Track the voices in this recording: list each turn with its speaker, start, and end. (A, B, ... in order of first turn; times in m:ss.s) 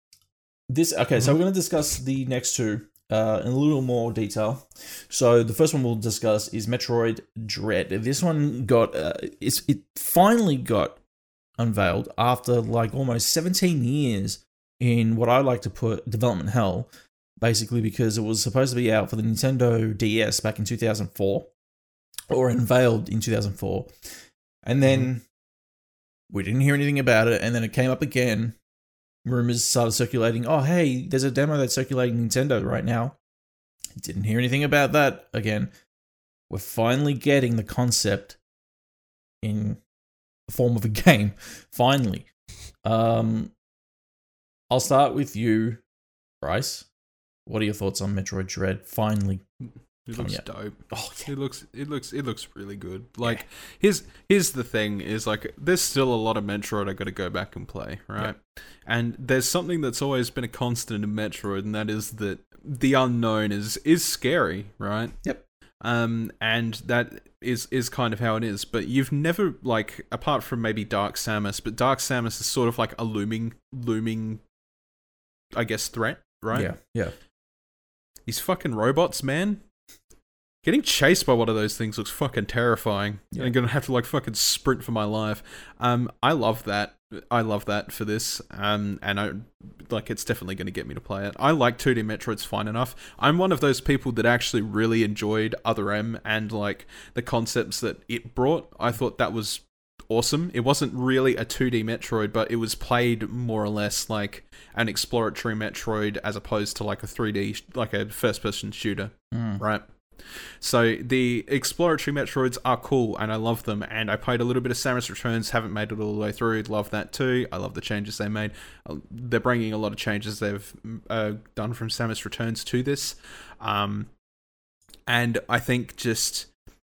0:00.7-0:11.0 A
0:11.6-0:16.9 A
0:17.4-0:21.5 A
0:22.3-0:23.9 A
0:24.6-0:25.2 A
0:26.3-0:28.6 A
0:29.2-0:33.2 A
0:34.0-0:35.7 A
0:36.5-0:38.4 A
0:39.4-0:39.8 A
0:40.5-0:42.3 A
0:42.8-0:43.5 A
0:44.7-0:45.8 A
0:46.4-0:46.9 A
0:47.4-0:49.4 A
0:50.0-1:05.2 B
0:50.1-0:51.3 A
1:05.8-1:14.4 B
1:15.5-1:16.7 B
1:16.5-1:17.1 A
1:18.2-1:19.6 B
1:20.6-2:04.1 B
1:49.3-1:49.6 A
2:05.1-2:06.5 B